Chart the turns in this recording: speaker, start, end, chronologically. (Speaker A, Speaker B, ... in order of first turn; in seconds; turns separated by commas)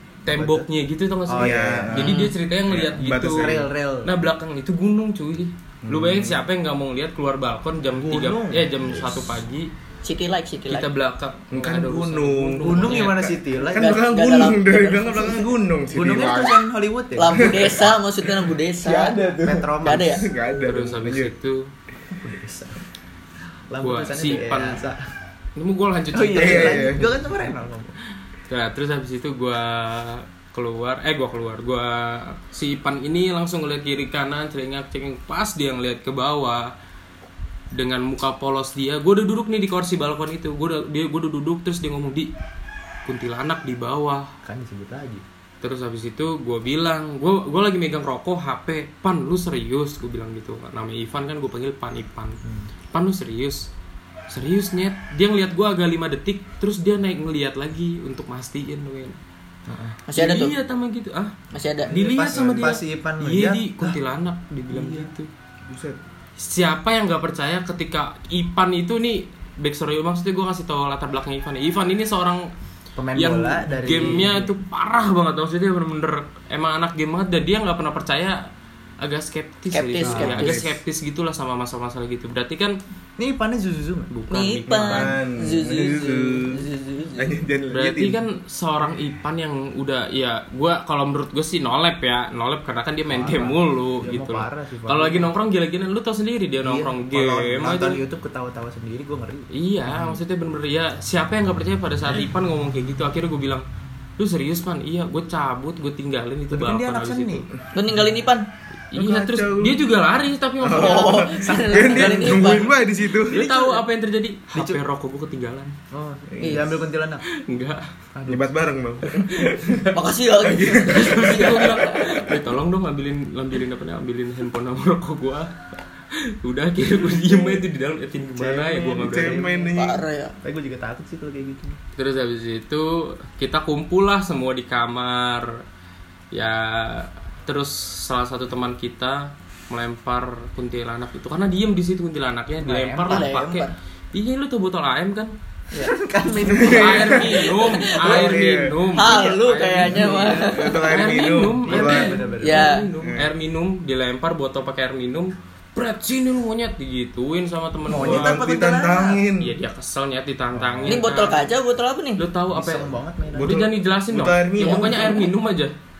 Speaker A: 0.2-9.7, Speaker B: 0.3-0.7, Speaker B: 1.3-2.1, Speaker C: 1.4-3.6, Speaker D: 2.0-2.3, Speaker B: 3.0-4.1, Speaker C: 5.8-6.4, Speaker B: 7.9-9.4, Speaker D: 10.0-10.9, Speaker A: 10.7-13.2, Speaker C: 11.5-16.6, Speaker B: 12.6-14.0, Speaker D: 13.7-15.5, Speaker B: 15.9-17.4, Speaker D: 16.1-16.6, Speaker D: 17.1-19.2, Speaker C: 17.3-21.3, Speaker B: 19.4-20.1, Speaker D: 19.8-20.2, Speaker A: 20.6-21.7, Speaker B: 22.1-22.8, Speaker B: 23.7-25.0, Speaker A: 23.8-24.8, Speaker A: 25.6-26.9, Speaker B: 26.1-27.9, Speaker C: 26.4-27.4, Speaker A: 28.5-36.7, Speaker A: 37.7-42.3, Speaker A: 43.0-44.3, Speaker B: 44.4-45.2, Speaker A: 45.6-52.4, Speaker B: 52.4-52.7, Speaker A: 52.9-53.7, Speaker A: 54.3-59.2, Speaker B: 59.7-60.0, Speaker D: 60.1-60.5, Speaker A: 60.1-61.3, Speaker D: 61.5-61.9, Speaker B: 61.9-64.0, Speaker A: 61.9-65.3, Speaker C: 62.3-62.7, Speaker C: 64.8-65.1, Speaker C: 65.6-66.0, Speaker A: 66.4-72.5, Speaker B: 73.0-74.5, Speaker A: 73.2-78.4, Speaker A: 79.0-82.8, Speaker D: 79.7-80.6, Speaker B: 80.0-80.6, Speaker B: 83.2-84.1, Speaker A: 84.1-85.1, Speaker D: 84.3-87.3, Speaker C: 84.9-88.2, Speaker A: 87.7-98.0, Speaker B: 93.1-95.3, Speaker B: 96.6-97.0, Speaker C: 97.1-97.7, Speaker B: 97.6-100.2, Speaker A: 99.5-103.6, Speaker A: 104.2-107.5, Speaker B: 106.5-108.2, Speaker D: 107.7-108.4, Speaker A: 108.9-111.3, Speaker C: 108.9-109.8, Speaker C: 110.6-113.5, Speaker D: 110.7-112.8, Speaker B: 111.9-112.3, Speaker A: 113.3-115.7, Speaker B: 113.3-113.8, Speaker B: 114.5-114.8, Speaker B: 115.9-117.2, Speaker C: 116.3-116.7, Speaker A: 117.3-117.8, Speaker B: 118.1-118.4, Speaker C: 118.3-119.8, Speaker A: 119.1-120.0, Speaker D: 119.9-122.3, Speaker C: 120.4-121.7, Speaker A: 120.9-125.5, Speaker A: 126.1-129.5, Speaker B: 128.3-129.7, Speaker C: 128.9-130.0, Speaker D: 129.7-130.3, Speaker B: 130.4-131.8, Speaker A: 131.9-135.6, Speaker A: 136.3-145.3, Speaker B: 142.6-143.3, Speaker D: 143.1-143.8, Speaker B: 145.7-147.4, Speaker C: 146.5-147.2, Speaker A: 146.7-158.4, Speaker D: 147.3-148.3, Speaker C: 147.9-148.8, Speaker D: 148.9-150.8, Speaker B: 149.9-150.3, Speaker C: 150.3-152.2, Speaker B: 151.7-152.7, Speaker D: 152.4-152.9, Speaker C: 153.0-153.2, Speaker C: 157.9-159.5, Speaker D: 158.0-159.2, Speaker A: 159.4-161.5, Speaker B: 160.6-161.0, Speaker D: 160.8-162.2, Speaker A: 162.2-165.7, Speaker B: 162.5-163.6, Speaker C: 163.3-165.0, Speaker D: 164.6-165.3